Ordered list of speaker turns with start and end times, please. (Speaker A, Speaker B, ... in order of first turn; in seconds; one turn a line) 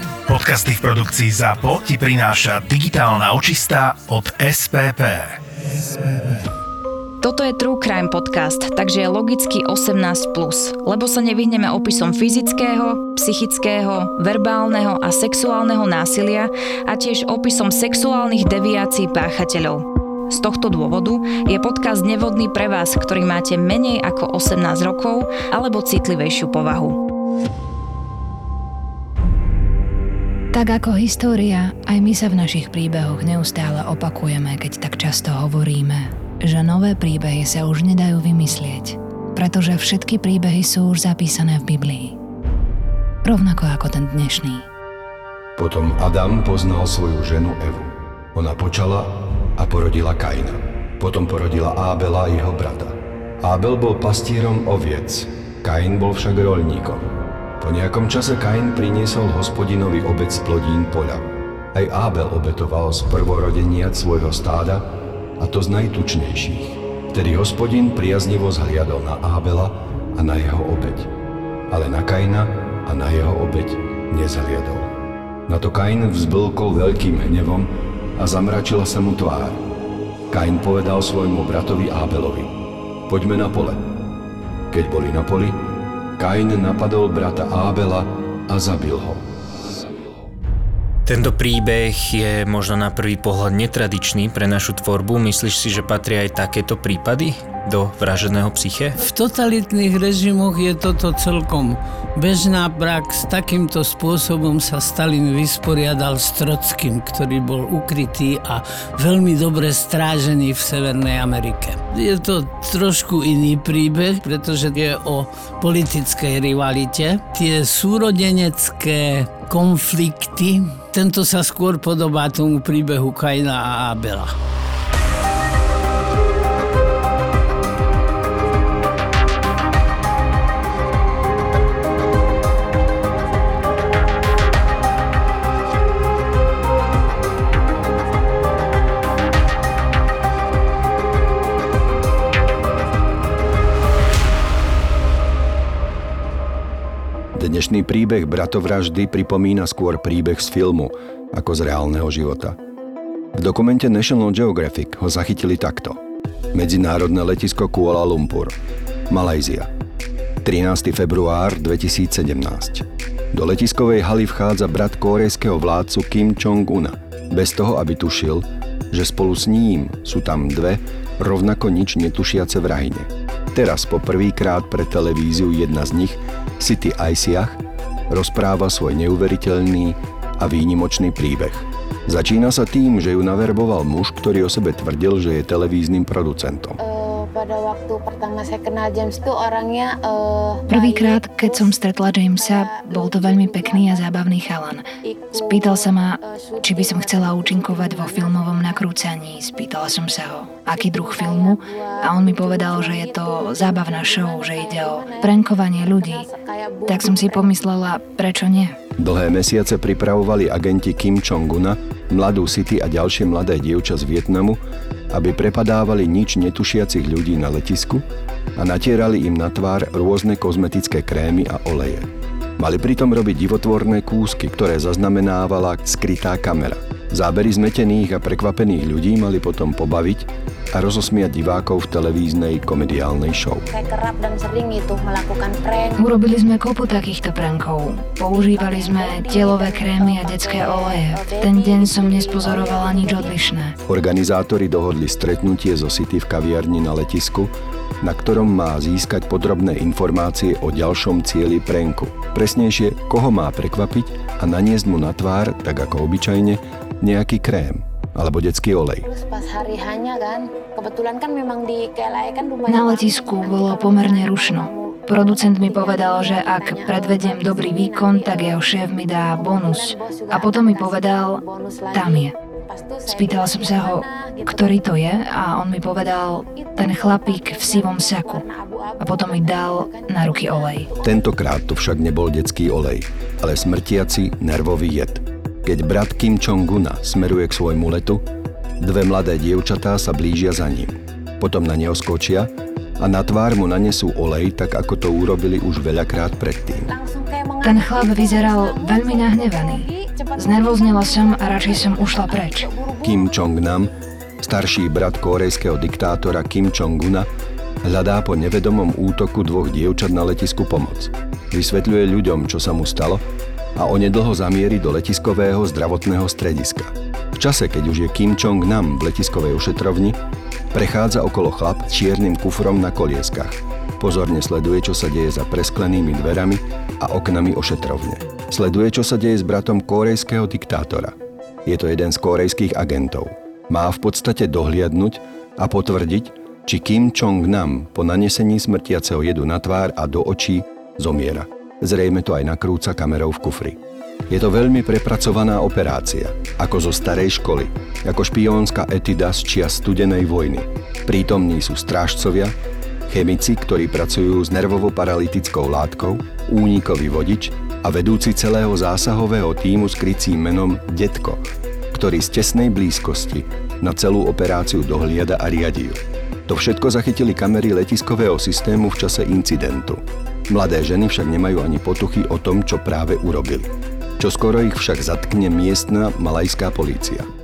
Speaker A: 0.3-5.4
Speaker B: 7.2-27.0
Speaker C: 30.5-42.1
Speaker C: 43.2-44.6
Speaker D: 45.6-64.9
Speaker D: 65.4-71.1
Speaker D: 71.7-74.9
Speaker D: 75.5-79.6
Speaker D: 80.3-82.5
Speaker D: 83.1-83.9
Speaker D: 84.7-85.6
Speaker D: 86.2-89.2
Speaker E: 91.1-99.0
Speaker F: 99.0-124.3
Speaker D: 147.3-152.6
Speaker D: 153.3-156.0
Speaker D: 156.5-158.6
Speaker D: 159.1-159.7
Speaker D: 160.4-177.6
Speaker D: 178.1-186.8
Speaker G: 186.8-194.2
Speaker C: 190.7-206.2
Speaker G: 195.0-198.8
Speaker G: 200.7-207.6
Speaker C: 206.8-208.8
Speaker D: 209.0-214.6
Speaker D: 215.1-233.7
Speaker G: 233.7-236.1
Speaker C: 236.0-243.8
Speaker G: 238.3-243.5
Speaker D: 243.8-259.1
Speaker G: 259.0-275.2
Speaker C: 262.7-272.3
Speaker C: 273.1-278.4
Speaker G: 276.5-281.1
Speaker C: 279.0-280.9
Speaker D: 281.0-288.2
Speaker D: 288.8-296.9
Speaker G: 296.9-303.3
Speaker C: 297.6-302.7
Speaker D: 303.0-303.9
Speaker D: 304.4-307.3
Speaker D: 307.8-313.2
Speaker D: 313.8-320.2
Speaker D: 320.7-331.1
Speaker D: 331.6-343.8
Speaker D: 344.3-352.6
Speaker D: 353.1-377.3